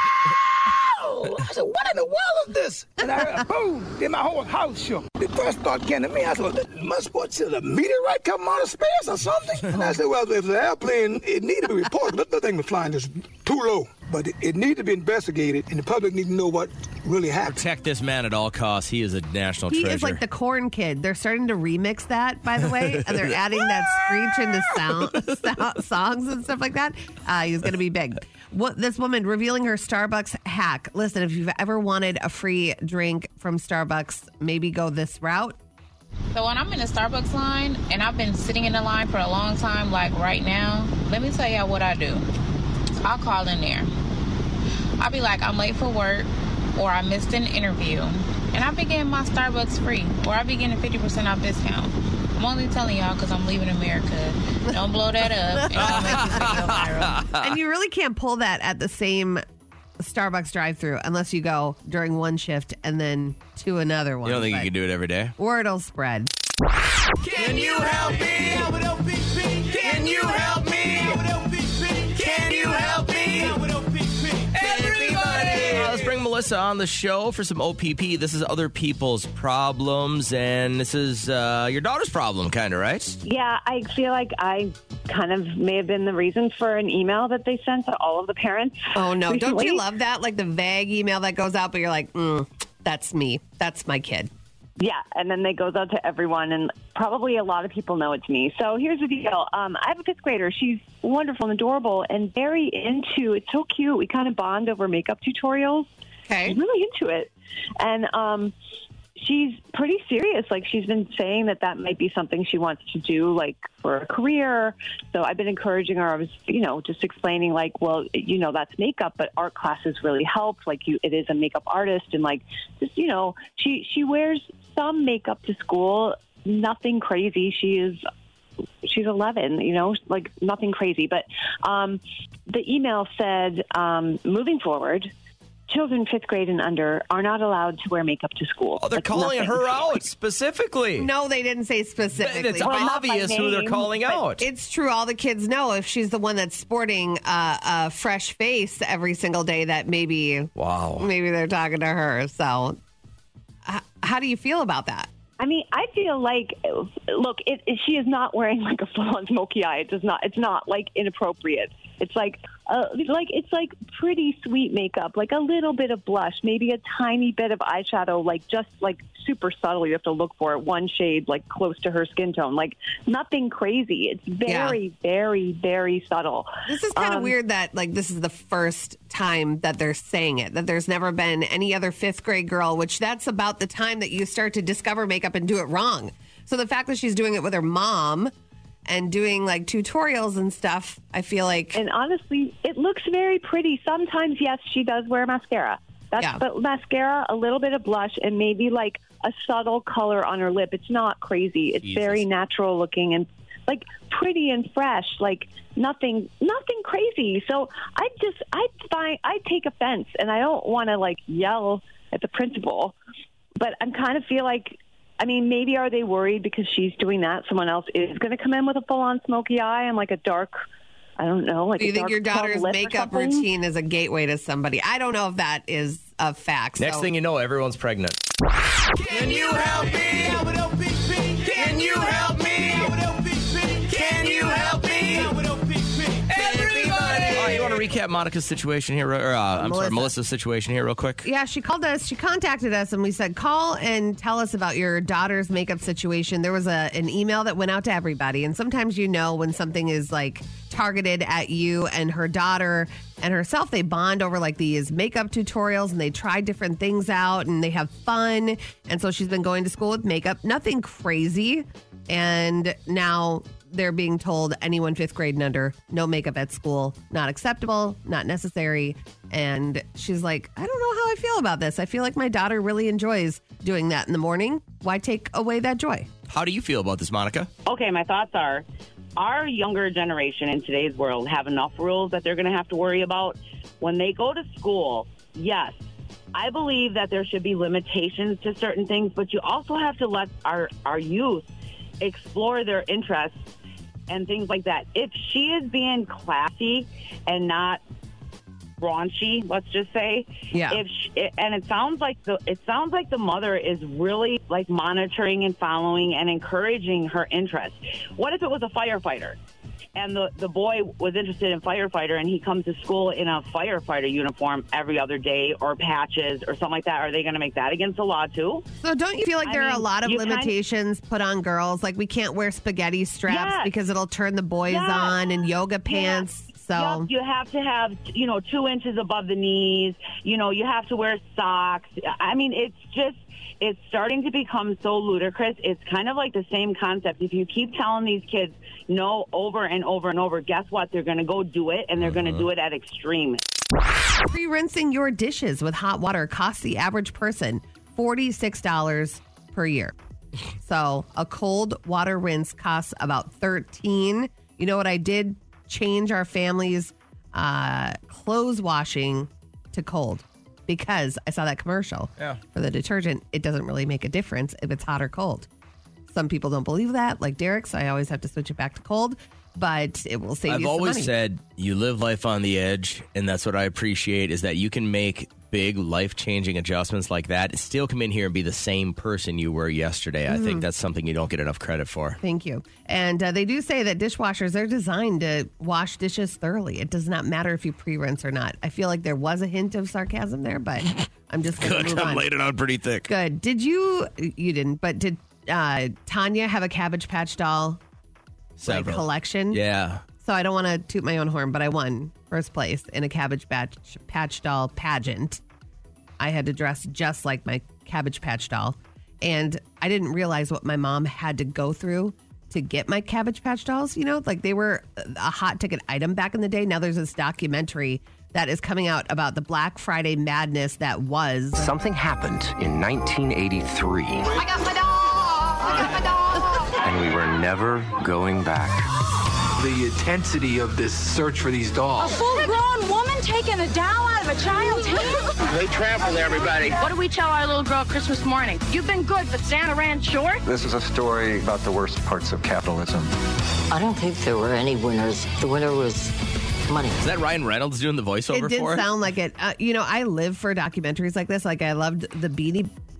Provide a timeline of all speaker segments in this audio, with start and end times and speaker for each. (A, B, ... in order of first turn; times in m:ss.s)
0:00.6-0:17.6 A
0:17.4-0:20.2 B
0:19.7-0:35.6 C
0:22.6-0:25.4 B
0:36.3-0:42.2 D
0:43.0-0:43.9 D
0:45.0-0:57.2 D
0:55.5-0:56.8 C
0:55.7-0:57.6 B
0:57.3-0:59.4 C
1:00.0-1:04.7 C
1:04.2-1:05.3 B
1:05.4-1:06.3 C
1:12.2-1:13.5 B
1:14.6-1:23.2 B
1:23.2-1:29.8 E
1:28.9-1:34.3 C
1:34.8-1:45.9 E
1:46.3-1:46.6 C
1:46.4-1:48.5 E
1:49.2-2:08.0 E
2:08.8-2:15.1 E
2:15.7-2:19.9 E
2:18.8-2:21.1 B
2:21.0-2:22.9 C
2:22.2-2:24.4 B
2:22.6-2:24.2 E
2:24.4-2:32.8 C
2:30.6-2:31.1 B
2:33.6-2:35.1 C
2:35.4-2:57.3 E
2:54.5-2:54.8 C
2:56.7-3:08.3 C
3:08.9-3:11.8 C
3:11.7-3:32.9 E
3:21.8-3:22.2 B
3:33.6-3:40.6 E
3:41.2-3:43.5 E
3:41.8-3:47.1 C
3:46.8-3:48.2 B
3:57.2-4:01.3 B
3:59.6-4:00.1 C
4:01.2-4:36.1 C
4:36.3-4:37.5 B
4:37.6-4:38.6 F
4:39.2-4:45.8 F
4:46.3-4:51.4 F
4:52.0-4:53.5 F
4:54.1-4:57.8 F
4:58.8-5:09.4 F
5:00.5-5:00.8 C
5:09.9-5:18.6 F
5:18.8-5:27.1 C
5:19.6-5:19.8 E
5:20.0-5:20.5 F
5:23.3-5:23.7 F
5:24.7-5:25.1 F
5:26.7-5:43.4 F
5:42.0-5:42.4 B
5:44.3-5:49.9 C
5:50.6-6:05.5 C
6:06.1-6:11.1 C
6:10.5-6:22.2 B
6:20.3-6:20.6 C
6:22.2-6:32.3 C
6:31.6-6:33.1 B
6:33.1-6:37.8 C
6:38.6-6:40.0 B
6:38.6-6:39.6 C
6:40.2-6:45.4 C
6:46.2-7:01.7 C
7:01.6-7:04.3 G
7:06.8-7:08.8 G
7:12.0-7:20.4 H
7:20.4-7:23.1 I
7:23.7-7:26.1 J
7:26.7-7:27.0 J
7:27.0-7:28.9 B
7:28.3-7:32.7 C